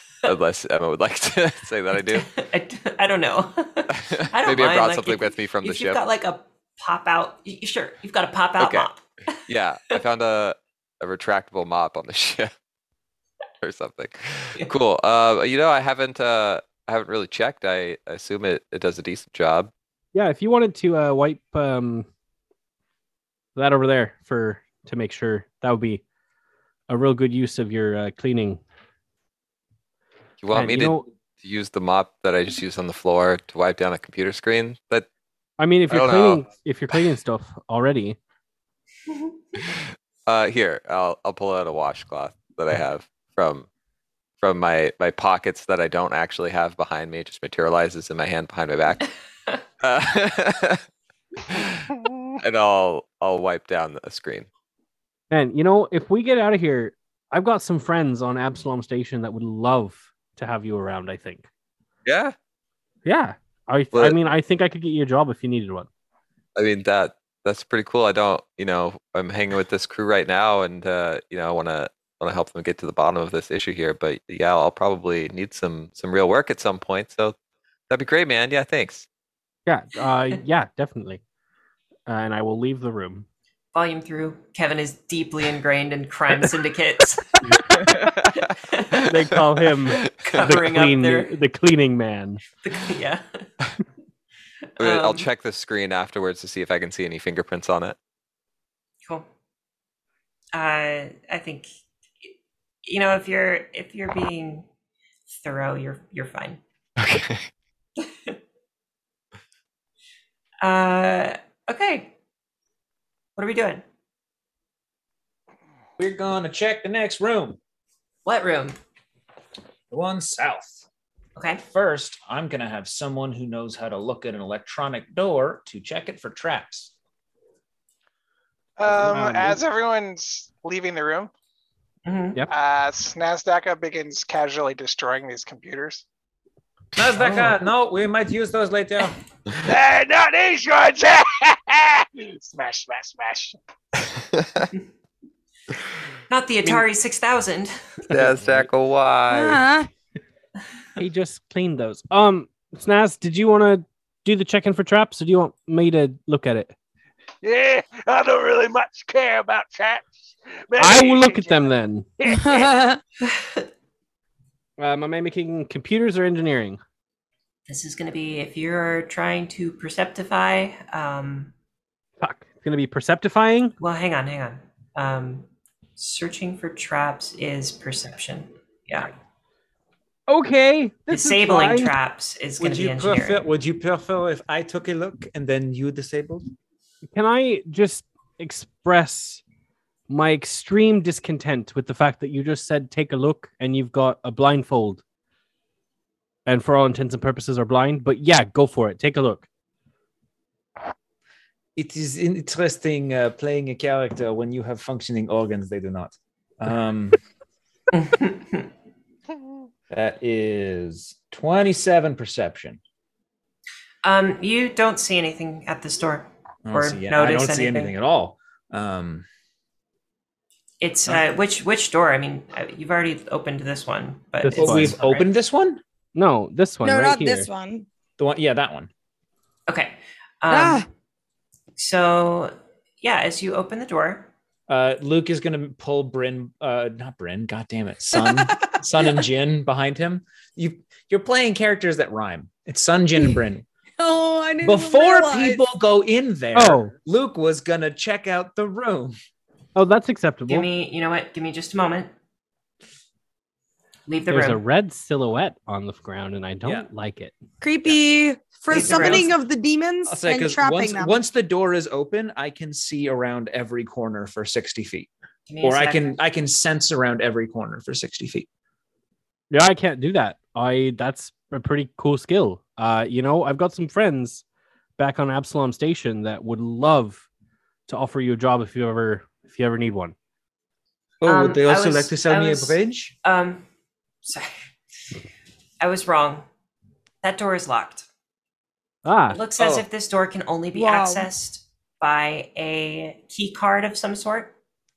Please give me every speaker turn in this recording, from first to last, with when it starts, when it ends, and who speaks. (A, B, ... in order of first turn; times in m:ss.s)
0:00.2-0:02.3 A
0:02.0-0:09.4 B
0:03.9-0:06.0 A
0:08.6-0:08.9 A
0:09.5-0:12.5 A
0:13.6-0:19.7 A
0:20.1-0:22.1 C
0:23.6-0:26.0 C
0:26.9-0:28.6 C
0:30.4-0:35.1 A
0:30.5-0:31.0 C
0:35.6-0:38.2 C
0:35.9-0:37.0 A
0:39.6-0:43.7 A
0:44.4-0:49.1 A
0:49.8-0:50.8 A
0:51.4-0:54.5 A
0:55.3-1:01.5 C
1:02.0-1:02.3 A
1:03.0-1:05.9 C
1:06.6-1:17.3 A
1:17.9-1:19.0 A
1:19.7-1:21.2 C
1:22.1-1:23.2 C
1:23.7-1:27.7 B
1:27.5-1:27.9 C
1:27.7-1:29.2 A
1:28.4-1:29.1 B
1:29.1-1:32.4 C
1:29.9-1:30.4 A
1:30.2-1:31.3 B
1:32.6-1:33.4 B
1:34.8-1:35.3 B
1:34.8-1:38.0 A
1:40.5-1:41.7 B
1:42.8-1:44.7 B
1:45.3-1:46.6 B
1:47.0-1:47.4 A
1:48.0-1:48.4 B
1:50.6-1:52.1 B
1:53.4-1:53.8 B
1:56.0-1:57.6 D
1:58.2-1:58.8 B
1:59.9-2:00.8 D
2:01.4-2:01.6 B
2:01.6-2:06.9 D
2:08.8-2:11.3 E
2:08.9-2:09.6 C
2:12.0-2:12.4 B
2:12.5-2:16.0 E
2:17.0-2:19.2 D
2:17.2-2:17.5 C
2:19.6-2:23.6 F
2:24.1-2:24.7 A
2:26.3-2:28.0 B
2:28.1-2:29.6 A
2:28.1-2:28.7 C
2:29.3-2:29.9 G
2:31.0-2:36.7 C
2:37.4-2:42.7 F
2:40.8-2:42.1 C
2:42.3-2:43.0 G
2:43.2-2:43.6 B
2:44.8-2:46.8 C
2:47.7-2:51.5 B
2:52.2-2:53.7 C
2:53.8-2:59.1 B
3:00.3-3:01.9 C
3:01.1-3:03.5 B
3:02.6-3:06.5 D
3:07.1-3:09.4 C
3:10.1-3:15.0 C
3:16.4-3:19.4 C
3:21.8-3:27.2 D
3:27.9-3:28.7 B
3:29.9-3:32.8 D
3:34.0-3:38.0 B
3:36.6-3:39.3 D
3:40.8-3:45.3 B
3:44.4-3:45.0 C
3:44.5-3:45.8 D
3:46.1-3:47.5 C
3:46.8-3:47.9 G
3:48.2-3:48.9 D
3:49.7-3:50.9 B
3:50.5-3:50.8 G
3:51.8-3:54.3 B
3:54.7-4:03.6 D
3:58.2-3:58.7 G
4:04.0-4:05.6 G
4:04.6-4:09.1 D
4:06.5-4:06.9 C
4:09.7-4:10.7 C
4:10.5-4:12.1 B
4:14.1-4:14.6 B
4:14.3-4:17.3 C
4:17.6-4:21.1 G
4:18.7-4:19.3 B
4:18.7-4:19.3 D
4:20.1-4:25.1 D
4:25.5-4:26.2 B
4:25.6-4:28.5 D
4:29.5-4:34.4 C
4:35.0-4:37.2 C
4:37.9-4:40.1 C
4:41.2-4:43.1 D
4:41.2-4:43.6 B
4:44.2-4:44.5 B
4:45.8-4:46.4 B
4:47.2-4:48.0 B
4:49.0-4:49.4 C
4:49.3-4:54.5 B
4:49.6-4:49.8 D
4:50.7-4:51.3 G